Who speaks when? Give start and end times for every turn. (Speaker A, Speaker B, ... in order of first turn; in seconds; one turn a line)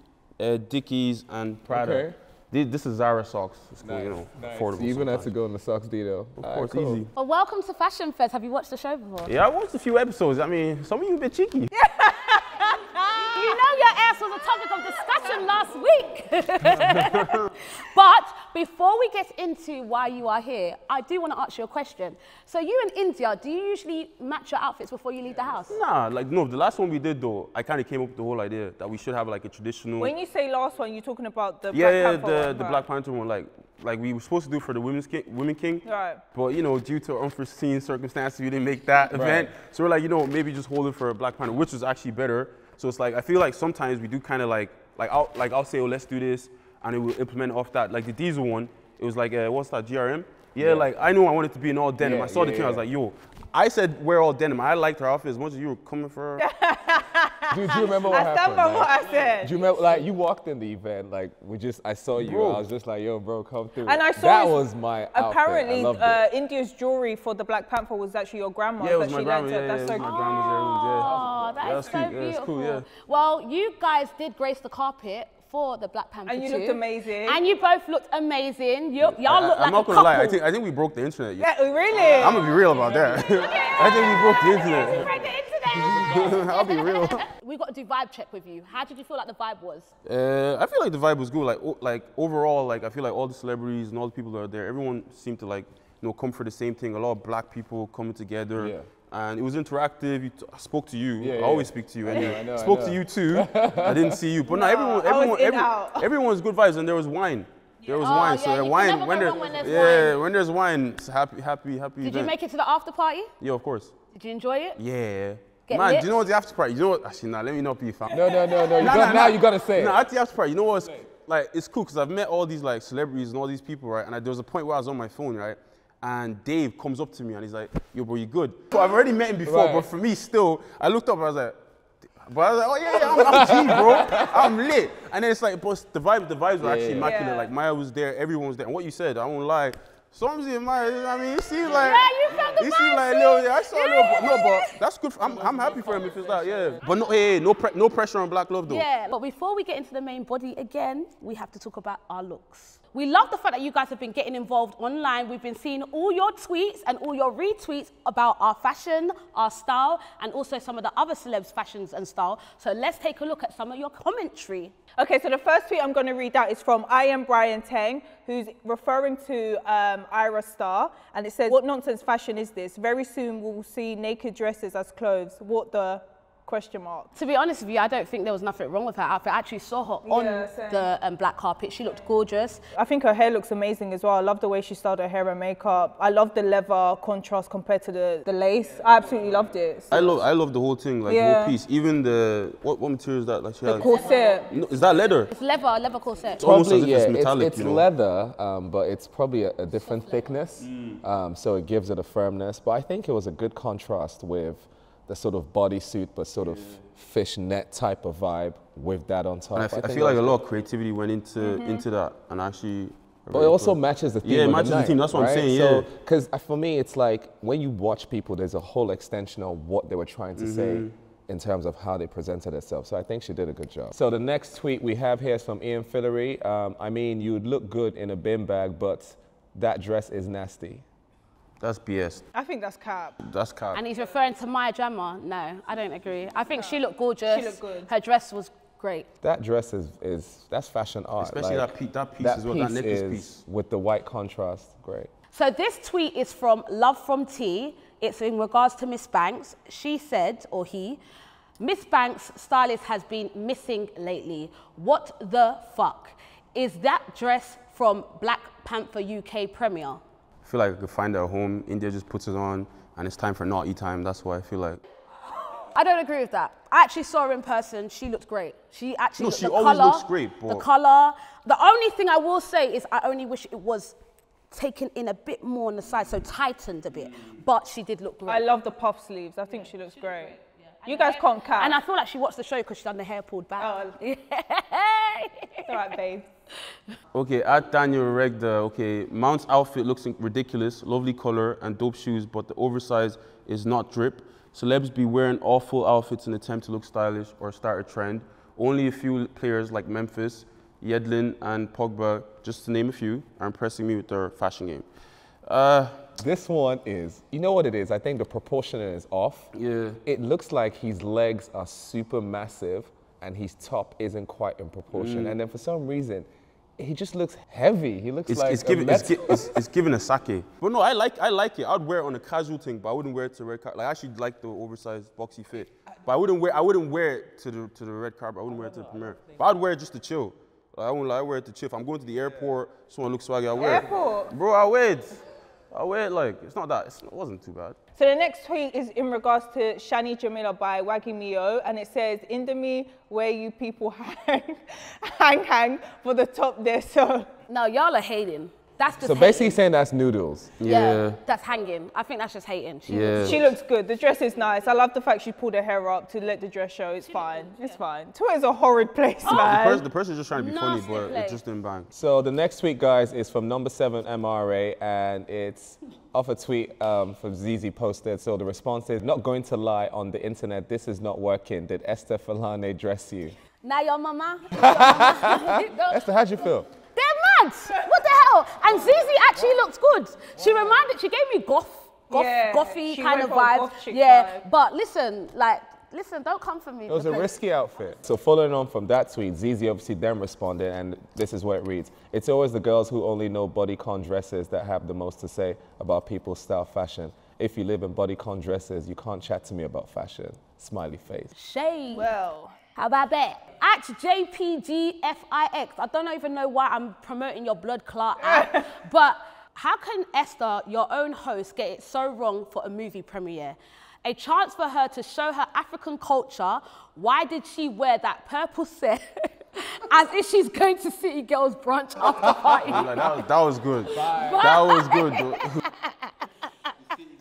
Speaker A: 0.4-5.3
Speaker B: 1.7-2.1
Speaker B: 3.8-7.0
Speaker A: 6.4-7.1
Speaker C: 7.2-9.3
Speaker A: 9.2-11.7
Speaker D: 11.7-13.6
Speaker C: 13.2-25.8
Speaker A: 16.7-17.5
Speaker A: 25.7-30.1
Speaker D: 30.0-32.8
Speaker A: 31.7-56.4
Speaker D: 35.9-36.2
Speaker B: 39.1-39.5
Speaker B: 50.6-50.9
Speaker B: 52.0-52.9
Speaker D: 56.4-59.6
Speaker B: 57.5-66.2
Speaker A: 62.1-62.6
Speaker D: 63.8-70.5
Speaker A: 68.8-72.9
Speaker C: 70.0-80.4
Speaker D: 76.2-77.4
Speaker A: 79.0-85.1
Speaker D: 81.4-85.0
Speaker C: 83.4-89.9
Speaker A: 85.8-87.2
Speaker A: 90.0-112.3
Speaker B: 98.6-98.9
Speaker B: 101.2-104.2
Speaker D: 104.5-106.1
Speaker C: 108.0-110.2
Speaker D: 109.4-110.0
Speaker C: 112.0-113.3
Speaker A: 113.4-113.9
Speaker C: 114.1-114.8
Speaker A: 114.8-131.6
Speaker C: 115.7-116.1
Speaker B: 118.1-120.0
Speaker B: 129.4-129.9
Speaker A: 132.2-148.8
Speaker B: 132.9-134.5
Speaker B: 136.6-137.1
Speaker D: 137.0-137.5
Speaker C: 141.7-144.8
Speaker C: 148.7-164.7
Speaker D: 165.0-177.1
Speaker C: 177.1-182.6
Speaker D: 180.1-180.9
Speaker D: 182.7-190.0
Speaker A: 189.9-193.9
Speaker D: 191.1-191.6
Speaker D: 193.6-194.5
Speaker C: 193.8-194.1
Speaker A: 194.5-195.3
Speaker C: 195.3-196.4
Speaker A: 196.4-197.8
Speaker B: 196.4-210.4
Speaker A: 209.5-215.9
Speaker D: 211.4-211.8
Speaker B: 213.3-230.8
Speaker A: 220.4-220.9
Speaker A: 231.6-232.2
Speaker D: 232.3-233.2
Speaker A: 233.2-233.8
Speaker C: 233.7-239.1
Speaker D: 236.5-237.9
Speaker B: 239.2-245.1
Speaker A: 241.2-243.4
Speaker C: 245.3-251.0
Speaker C: 251.6-260.0
Speaker A: 260.4-264.8
Speaker C: 265.4-273.9
Speaker A: 269.2-270.6
Speaker C: 274.5-278.4
Speaker D: 278.3-281.8
Speaker C: 279.9-285.9
Speaker D: 283.6-283.9
Speaker D: 285.7-286.3
Speaker A: 287.1-304.9
Speaker A: 305.4-306.0
Speaker B: 306.2-309.5
Speaker A: 309.5-310.0
Speaker B: 310.0-319.6
Speaker A: 314.9-315.4
Speaker A: 318.3-337.8
Speaker D: 333.6-334.3
Speaker D: 338.0-347.3
Speaker C: 347.5-349.6
Speaker B: 348.9-350.6
Speaker A: 350.6-351.2
Speaker C: 350.6-353.5
Speaker A: 352.9-353.5
Speaker D: 353.2-359.8
Speaker C: 357.0-357.8
Speaker A: 359.2-361.9
Speaker C: 360.3-361.4
Speaker B: 361.9-373.4
Speaker C: 373.6-376.1
Speaker B: 374.5-376.7
Speaker C: 376.9-387.3
Speaker D: 382.1-384.4
Speaker B: 386.9-401.3
Speaker C: 401.3-402.1
Speaker D: 401.9-402.5
Speaker C: 402.8-423.1
Speaker D: 408.2-408.7
Speaker B: 422.1-422.9
Speaker A: 422.6-425.6
Speaker B: 423.9-424.5
Speaker C: 424.0-426.7